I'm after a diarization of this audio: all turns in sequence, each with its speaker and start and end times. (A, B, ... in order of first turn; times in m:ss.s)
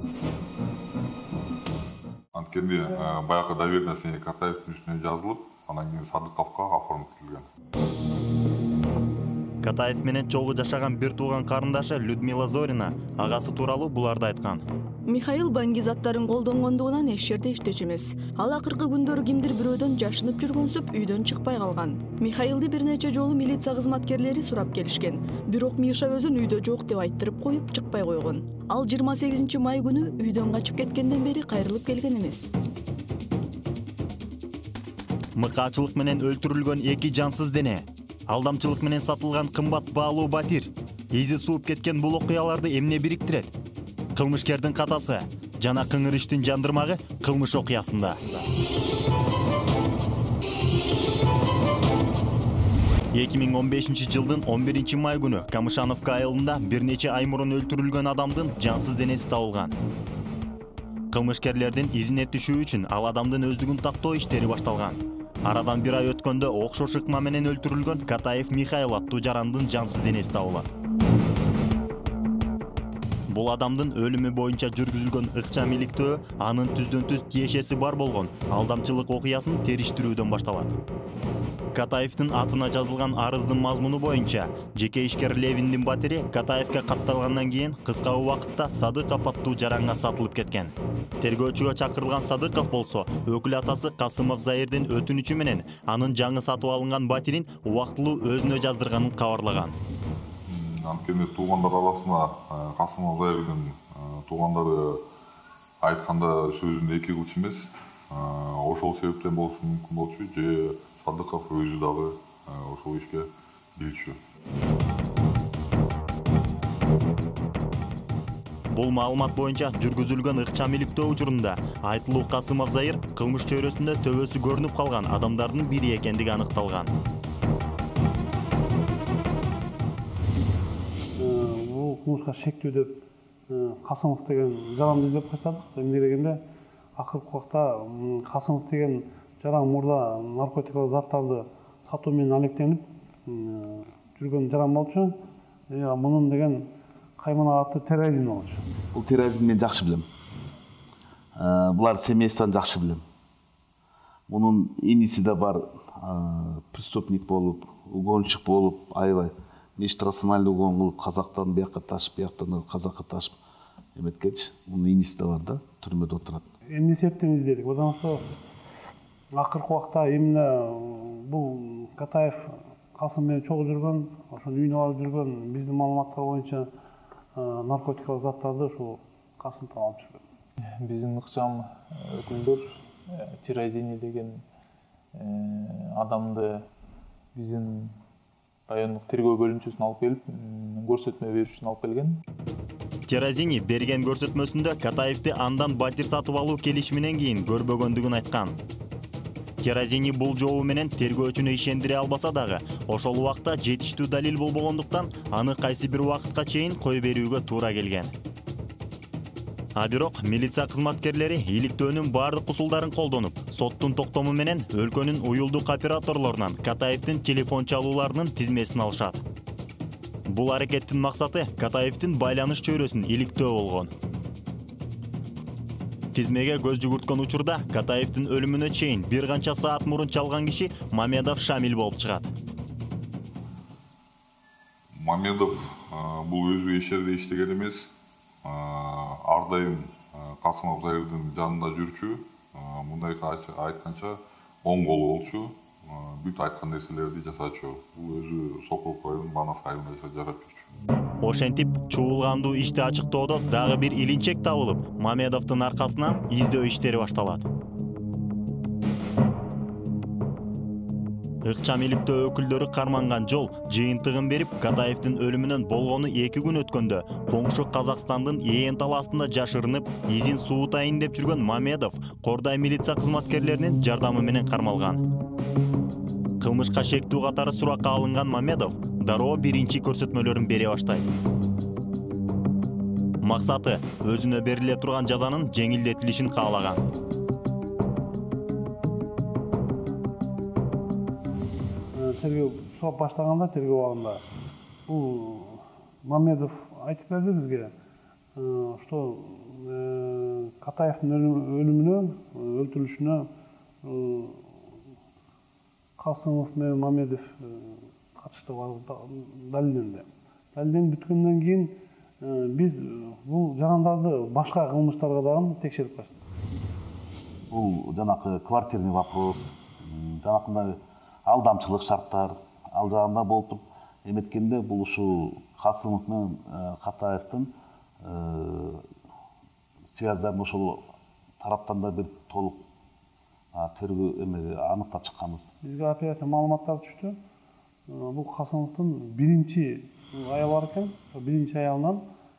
0:02.3-0:07.5 A
0:09.6-0:14.6 B
0:15.1-0:32.5 C
0:35.4-0:43.5 B
0:44.2-0:48.2 B
0:53.1-0:59.8 B
1:01.1-1:10.7 B
1:13.3-1:20.8 B
1:21.7-1:39.8 B
1:40.5-1:45.0 A
1:45.8-1:54.2 A
1:58.7-2:06.9 B
2:11.2-2:16.4 D
2:17.0-2:25.2 D
2:25.7-2:28.6 D
2:28.9-2:30.1 E
2:31.4-2:33.0 E
2:34.3-2:43.4 E
2:44.0-2:46.5 E
2:46.7-2:48.3 D
2:49.3-2:56.7 D
2:57.4-3:00.2 D
3:00.8-3:04.4 F
3:05.1-3:06.7 F
3:07.4-3:08.0 F
3:08.7-3:12.2 F
3:13.1-3:18.6 B
3:19.6-3:28.1 B
3:29.8-3:39.2 B
3:40.3-3:43.9 B
3:46.1-3:52.3 B
3:54.9-3:57.9 A
3:58.4-4:10.7 A
4:11.2-4:17.4 B
4:21.4-4:35.0 B
4:36.4-4:41.1 B
4:43.2-4:46.8 B
4:51.9-4:54.2 D
4:54.9-4:57.7 D
4:58.4-5:03.3 D
5:03.8-5:04.5 D
5:06.0-5:16.2 D
5:17.5-5:28.8 E
5:29.9-5:30.8 E
5:31.4-5:32.6 E
5:33.5-5:35.5 E
5:35.6-5:37.2 D
5:37.9-5:42.0 D